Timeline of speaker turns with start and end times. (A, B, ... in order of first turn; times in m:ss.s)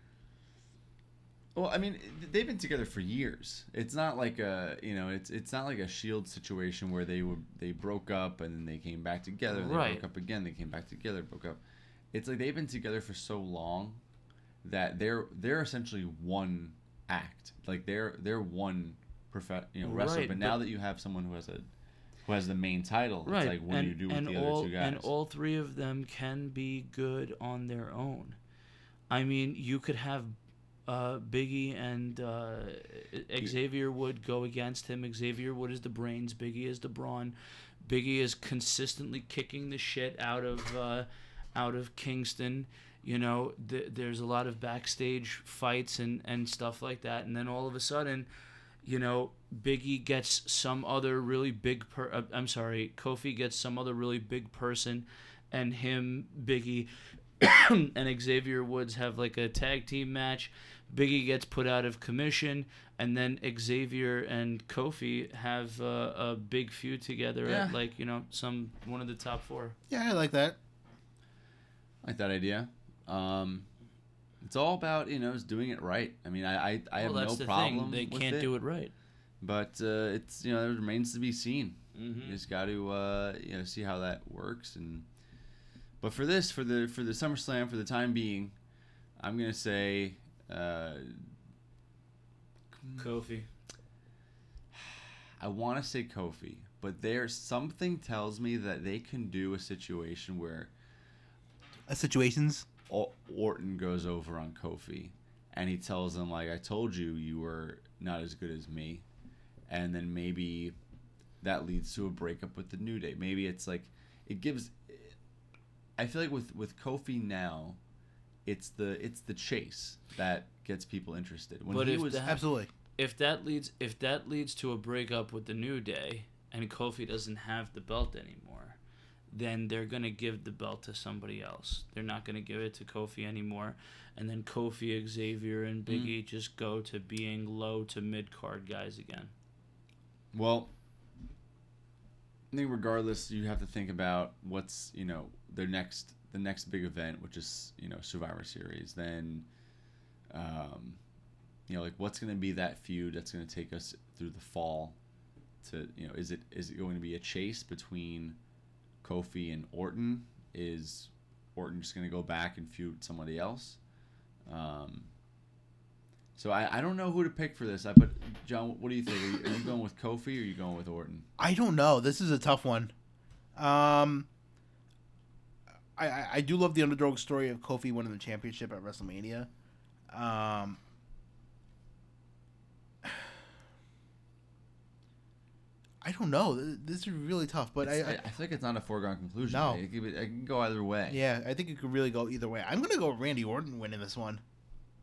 0:01.5-0:11.6 A
0:09.5-0:10.0 B
0:12.1-0:14.0 A
0:14.6-0:21.7 A
0:19.8-0:20.6 B
0:22.2-0:25.1 A
0:23.3-0:28.4 B
0:29.1-0:48.3 B
0:48.8-1:09.8 B
1:07.4-1:07.8 A
1:09.9-1:10.6 C
1:12.0-1:13.7 A
1:14.4-1:18.5 A
1:17.0-1:18.9 B
1:19.4-1:25.1 A
1:22.0-1:22.4 B
1:26.0-1:28.5 A
1:29.2-1:31.3 A
1:32.8-1:33.1 A
1:33.0-1:33.5 B
1:34.7-1:40.7 A
1:41.9-1:42.7 C
1:42.9-1:49.0 A
1:49.7-1:50.8 A
1:51.4-1:55.2 A
1:56.0-1:57.8 A
1:58.4-2:02.4 A
2:01.7-2:02.4 B
2:02.2-2:02.7 C
2:03.0-2:08.8 B
2:09.3-2:19.3 B
2:15.9-2:16.2 A
2:20.3-2:20.7 A
2:22.5-2:29.5 A
2:30.3-2:31.0 A
2:31.7-2:35.0 A
2:35.6-2:38.4 A
2:39.0-2:43.8 A
2:44.5-2:45.1 A
2:46.4-2:51.3 A
2:51.4-2:52.9 C
2:53.6-2:54.3 C
2:56.0-2:59.5 C
3:00.1-3:00.8 C
3:06.0-3:08.2 C
3:07.8-3:11.2 A
3:09.5-3:09.8 C
3:11.1-3:14.4 C